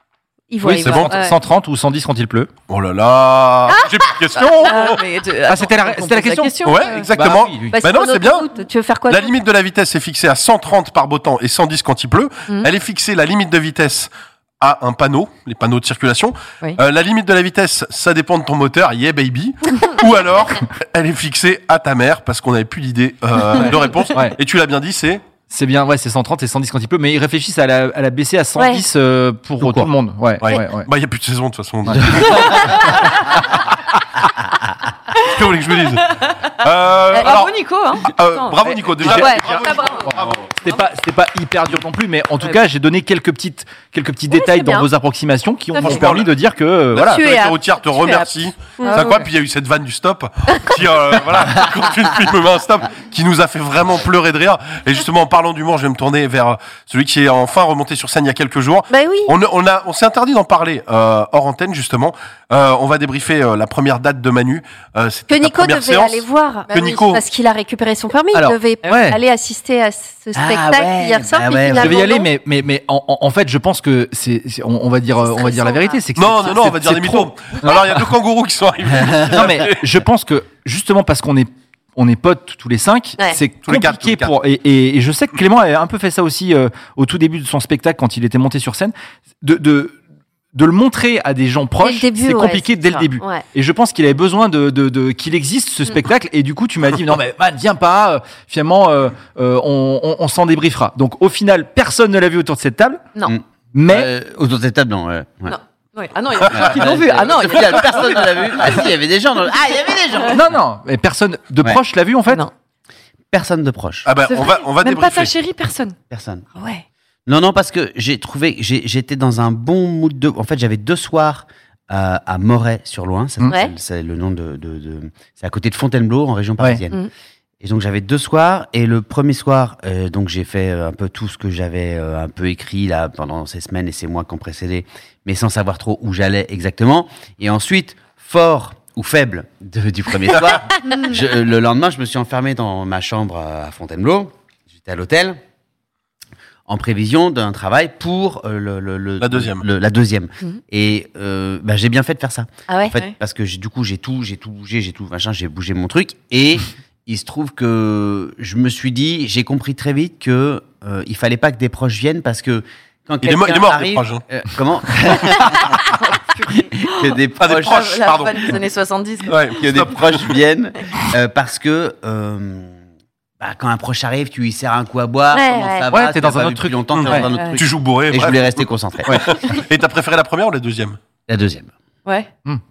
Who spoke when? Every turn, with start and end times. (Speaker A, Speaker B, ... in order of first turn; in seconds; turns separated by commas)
Speaker A: 0.5-1.3, Speaker B: 0.6-2.5, Speaker C: 0.8-1.1, Speaker C: 2.7-5.0, Speaker A: 3.7-4.0, Speaker D: 4.6-7.1, Speaker B: 5.5-6.5, Speaker C: 6.6-8.5, Speaker B: 7.1-7.7, Speaker A: 7.7-9.3, Speaker C: 9.1-25.2, Speaker B: 25.5-30.9, Speaker A: 28.6-28.8, Speaker E: 29.6-29.9, Speaker C: 30.4-32.9, Speaker B: 31.9-32.3, Speaker E: 32.0-32.3, Speaker C: 35.1-40.4, Speaker D: 36.0-36.4, Speaker D: 37.1-38.6, Speaker B: 38.6-47.2, Speaker A: 39.1-40.0, Speaker A: 44.3-44.9, Speaker C: 45.8-46.3, Speaker C: 46.9-67.2, Speaker A: 47.0-49.1, Speaker D: 48.9-49.2, Speaker A: 58.9-59.3, Speaker A: 65.3-72.3, Speaker B: 68.3-69.2, Speaker E: 70.3-72.1, Speaker B: 71.7-78.0, Speaker A: 75.2-76.0, Speaker C: 76.2-79.8, Speaker E: 79.0-79.3, Speaker B: 79.3-90.0, Speaker C: 83.6-84.3, Speaker B: 90.5-103.1, Speaker A: 91.8-93.4, Speaker E: 103.2-105.6, Speaker B: 103.7-104.1, Speaker D: 105.5-108.4, Speaker E: 106.5-110.5, Speaker B: 110.3-112.4, Speaker E: 113.3-114.1, Speaker C: 114.0-115.3, Speaker D: 114.3-116.0, Speaker E: 116.1-116.5, Speaker D: 116.5-116.8, Speaker E: 117.3-127.0, Speaker A: 123.5-123.7, Speaker E: 127.6-145.4, Speaker D: 140.8-141.2, Speaker E: 146.7-166.0, Speaker C: 149.2-149.6, Speaker A: 152.7-152.9, Speaker C: 163.2-164.2, Speaker D: 165.9-169.5, Speaker E: 166.8-167.8, Speaker C: 167.4-168.6, Speaker C: 169.3-170.4, Speaker E: 169.6-172.8, Speaker E: 173.4-179.3, Speaker A: 175.3-175.9, Speaker B: 175.9-177.2, Speaker C: 176.9-181.0, Speaker D: 177.3-177.6, Speaker E: 181.3-181.7